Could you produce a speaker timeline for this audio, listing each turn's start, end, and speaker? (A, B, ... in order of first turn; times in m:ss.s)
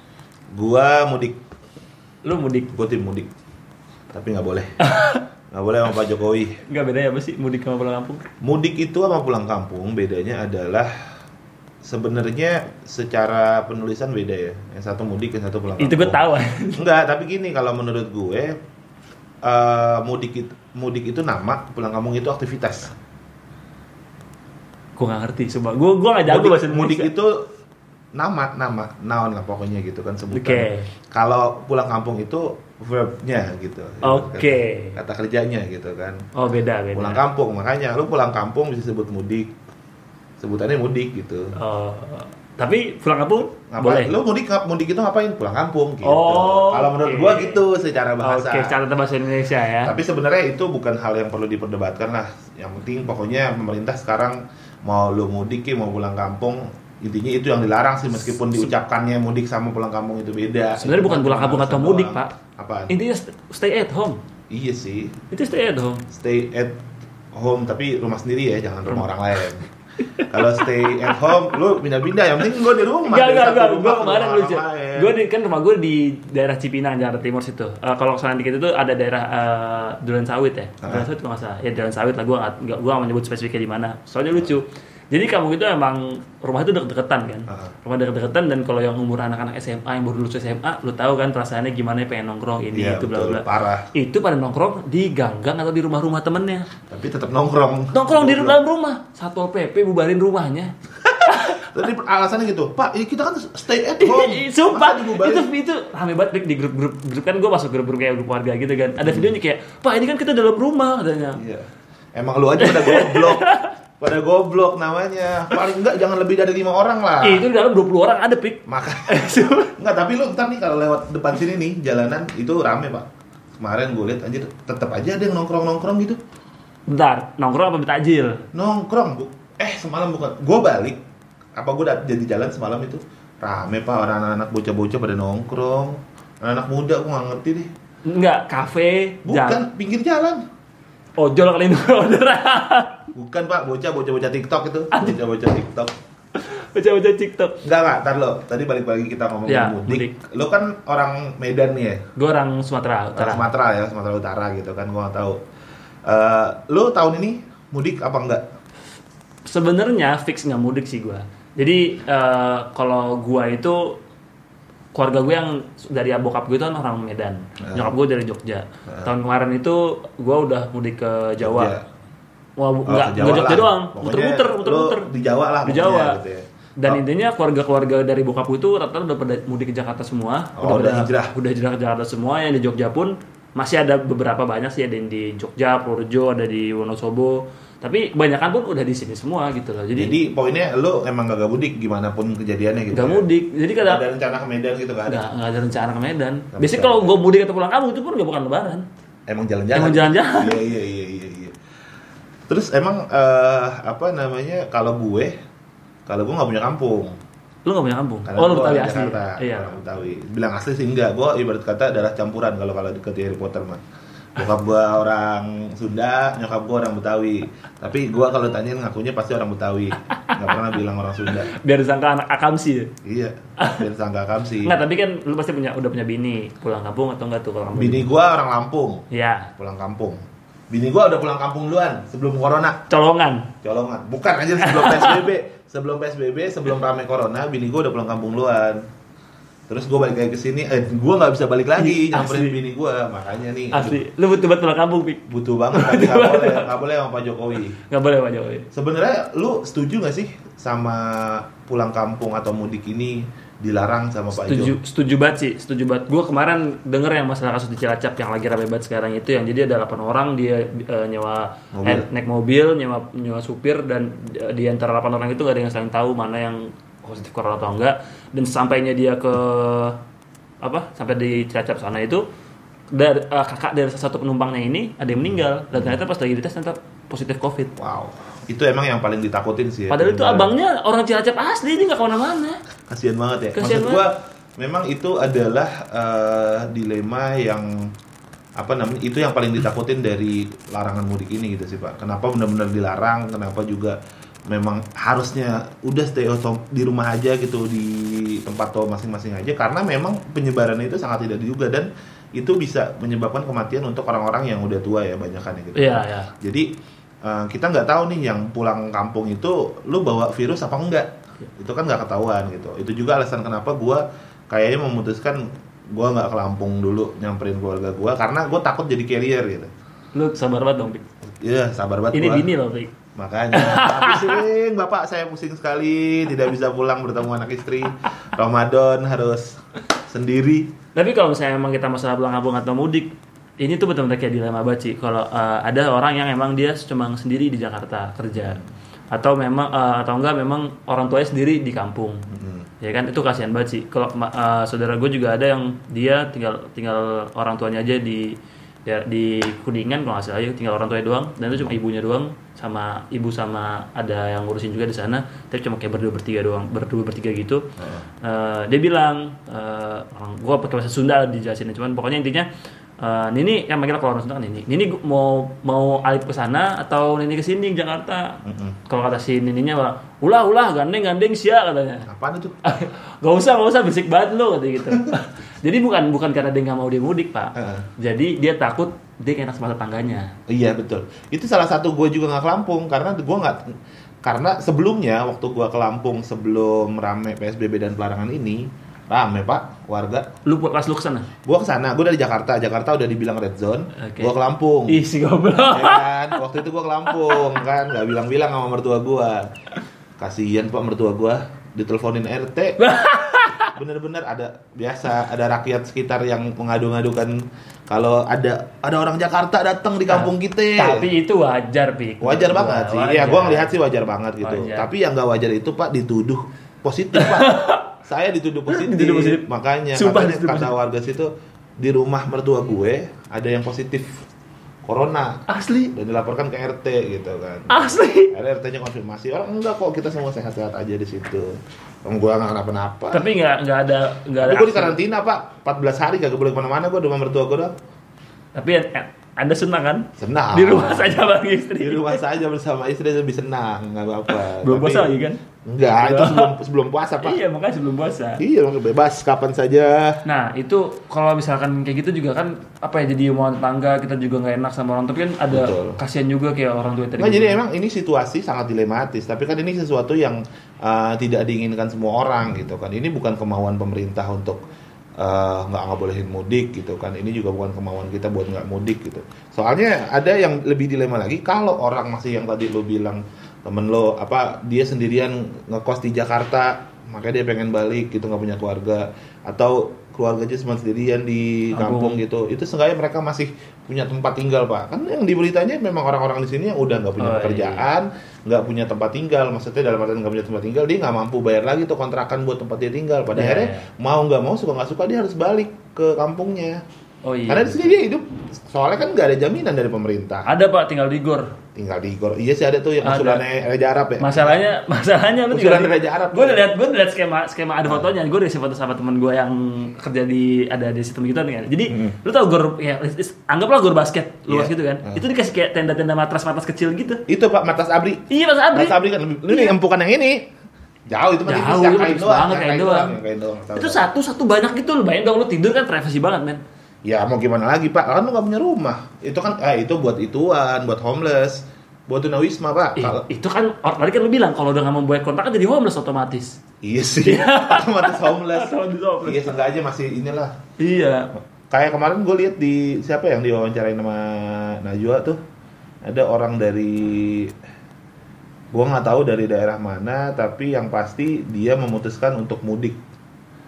0:00.5-0:01.4 A
0:02.2-0:02.7 B
0:02.7-0:03.3 A
0:04.1-0:04.7 A
0:04.8-0:05.2 B
0:05.5-0:06.6 A
0:06.7-0:08.2 B
0:08.4-0:10.9 A
0:11.8-0:16.2 A
0:15.8-0:16.8 B
0:16.8-0:18.6 A
0:19.4-0:22.9 A
0:25.0-0:27.1 B
0:26.3-0:27.5 A
0:28.2-0:36.2 A
0:30.3-0:30.9 B
0:34.0-0:35.0 B
0:36.4-0:37.2 B
0:37.0-0:39.5 A
0:40.4-0:41.6 A
0:41.6-0:44.1 B
0:43.7-0:48.7 A
0:46.0-0:47.6 B
0:48.2-0:50.0 B
0:49.8-1:03.0 A
1:00.8-1:02.3 B
1:02.9-1:04.2 B
1:04.5-1:05.2 A
1:05.3-1:06.0 B
1:06.1-1:06.8 A
1:07.3-1:09.7 A
1:10.2-1:10.7 B
1:10.2-1:15.1 A
1:13.0-1:36.7 B
1:20.8-1:21.1 A
1:32.7-1:33.9 A
1:36.9-1:38.6 A
1:37.9-1:40.7 B
1:41.2-1:45.5 A
1:41.3-1:41.7 B
1:44.0-1:51.4 B
1:49.0-1:49.3 A
1:51.4-1:53.5 A
1:52.6-1:53.7 B
1:54.0-1:57.5 A
1:57.2-1:59.8 B
1:58.7-2:03.1 A
2:03.6-2:06.2 A
2:06.9-2:08.4 B
2:08.5-2:11.0 A
2:11.6-2:17.7 A
2:18.1-2:19.6 B
2:19.3-2:20.4 A
2:21.2-2:23.0 B
2:23.1-2:25.9 A
2:24.9-2:25.2 B
2:26.4-2:27.6 B
2:27.6-2:32.0 A
2:29.5-2:30.2 B
2:32.2-2:33.5 B
2:33.2-2:35.4 A
2:36.1-2:38.4 A
2:39.5-2:44.0 B
2:44.9-2:51.8 B
2:47.6-2:47.9 A
2:51.4-2:51.8 A
2:52.6-2:55.1 B
2:52.9-2:57.0 A
2:55.6-2:56.2 B
2:56.8-3:10.2 B
3:00.6-3:01.3 A
3:09.9-3:13.3 A
3:12.9-3:14.0 B
3:13.8-3:15.3 A
3:15.1-3:18.9 B
3:16.5-3:17.2 A
3:19.3-3:21.6 A
3:19.7-3:20.6 B
3:22.5-3:25.3 A
3:26.1-3:27.2 A
3:27.7-3:29.8 B
3:28.3-3:33.8 A
3:34.4-3:41.5 A
3:41.3-3:42.9 B
3:43.0-3:44.8 A
3:43.6-3:43.9 B
3:44.6-3:48.1 B
3:47.7-3:49.0 A
3:49.1-3:49.5 B
3:49.6-3:52.8 A
3:52.9-3:53.5 B
3:53.6-3:58.8 A
3:54.6-3:55.3 B
3:59.7-4:04.0 A
4:01.8-4:02.6 B
4:03.7-4:06.7 B
4:05.3-4:07.8 A
4:07.9-4:08.7 B
4:08.7-4:14.8 A
4:14.3-4:30.0 B
4:21.7-4:22.1 A
4:30.6-4:32.2 B
4:32.9-4:37.7 B
4:37.8-4:40.5 A
4:39.9-4:42.6 B
4:42.9-4:47.9 A
4:43.6-4:44.0 B
4:48.6-4:54.0 A
4:54.5-5:06.7 A
5:05.8-5:06.3 B
5:07.2-5:19.7 A
5:20.1-5:21.0 B
5:21.4-5:22.5 A
5:22.1-5:22.9 B
5:23.2-5:30.7 A
5:23.5-5:24.4 B
5:31.0-5:38.6 B
5:38.4-5:38.7 A
5:39.1-5:42.2 B
5:42.3-5:42.7 A
5:42.8-5:57.6 B
5:57.8-5:58.0 A
5:58.2-6:02.5 B
6:03.0-6:12.1 B
6:08.4-6:08.8 A
6:12.1-6:12.6 A
6:12.6-6:20.3 B
6:17.6-6:17.9 A
6:20.5-6:23.6 A
6:24.2-6:30.3 A
6:30.4-6:31.3 B
6:31.5-6:35.0 A
6:34.0-6:34.3 B
6:34.9-6:36.2 B
6:35.6-6:39.5 A
6:37.2-6:37.4 B
6:40.2-6:42.8 A
6:42.8-6:43.7 B
6:43.8-6:51.1 A
6:50.1-6:53.7 B
6:52.2-7:04.2 A
6:54.4-6:54.9 B
6:57.2-6:57.9 B
6:58.7-6:59.4 B
6:59.9-7:00.7 B
7:04.8-7:13.3 A
7:05.5-7:05.9 B
7:07.7-7:08.3 B
7:13.1-7:15.0 B
7:14.4-7:17.8 A
7:18.6-7:22.2 B
7:20.2-7:21.3 A
7:21.8-7:25.1 A
7:24.3-7:25.4 B
7:25.7-7:27.4 A
7:25.9-7:26.5 B
7:27.2-7:28.4 B
7:28.4-7:30.2 A
7:30.2-7:37.6 B
7:35.5-7:36.0 A
7:37.2-7:44.6 A
7:45.2-8:16.8 A
8:01.7-8:02.2 B
8:07.2-8:07.9 B
8:13.3-8:13.9 B
8:17.2-8:18.0 B
8:17.5-8:20.5 A
8:20.5-8:21.5 B
8:21.8-8:24.6 A
8:23.0-8:23.4 B
8:24.2-8:37.2 B
8:25.5-8:26.6 A
8:27.8-8:28.1 A
8:31.9-8:32.2 A
8:34.5-8:35.2 A
8:37.3-8:40.5 A
8:38.3-8:39.0 B
8:39.5-8:39.8 B
8:41.1-8:44.1 A
8:41.5-8:43.2 B
8:43.8-8:46.6 B
8:47.0-8:53.2 A
8:53.0-8:56.6 B
8:56.8-9:00.5 A
8:57.2-8:59.6 B
9:00.8-9:01.3 B
9:01.7-9:05.4 A
9:06.0-9:07.6 A
9:08.7-9:13.0 A